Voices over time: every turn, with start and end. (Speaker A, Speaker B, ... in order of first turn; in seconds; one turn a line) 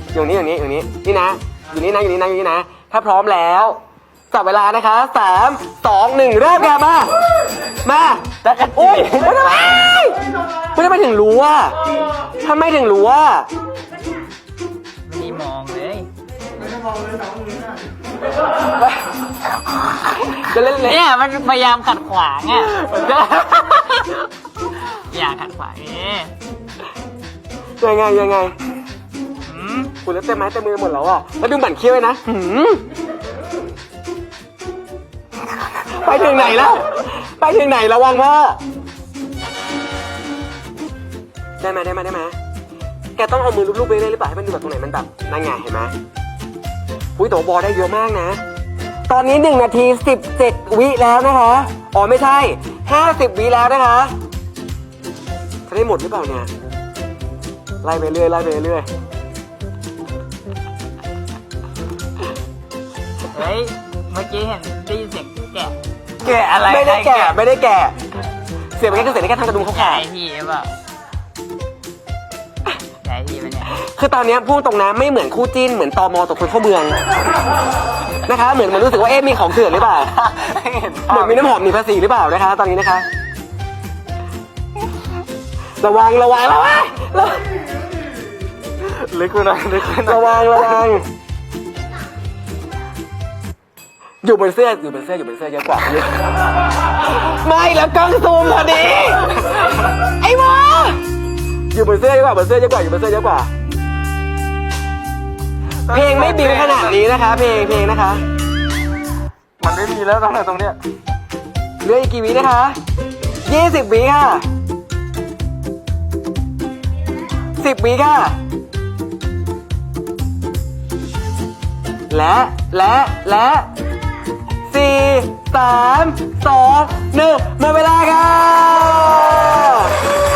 Speaker A: 0.1-3.8
Speaker A: 4.3-7.1
Speaker A: 7.8-10.2
Speaker B: 8.4-9.4
Speaker A: 10.7-11.8
Speaker A: 12.4-13.5
Speaker C: 15.1-16.1
Speaker A: 20.3-21.0
Speaker C: 20.6-26.3
Speaker A: 22.9-23.5
Speaker A: 27.8-28.6
Speaker C: 29.5-29.9
Speaker A: 30.0-32.9
Speaker A: 35.8-38.6
Speaker A: 41.6-42.4
Speaker A: 43.2-45.9
Speaker A: 47.2-48.4
Speaker A: 49.1-54.1
Speaker A: 55.7-56.5
Speaker A: 57.8-58.9
Speaker C: 63.3-67.4
Speaker A: 66.6-68.0
Speaker A: 68.8-70.1
Speaker C: 69.5-70.7
Speaker C: 73.0-73.8
Speaker A: 73.8-77.0
Speaker A: 78.2-80.1
Speaker B: 80.1-81.5
Speaker A: 81.1-83.0
Speaker A: 85.8-87.4
Speaker B: 88.8-90.9
Speaker A: 90.0-91.1
Speaker A: 94.2-96.2
Speaker A: 96.9-101.0
Speaker A: 101.7-103.5
Speaker B: 105.9-107.0
Speaker A: 105.9-108.2
Speaker B: 109.6-110.8
Speaker A: 111.8-112.8
Speaker A: 113.5-114.4
Speaker A: 117.6-118.4
Speaker A: 122.1-123.7
Speaker A: 124.7-130.0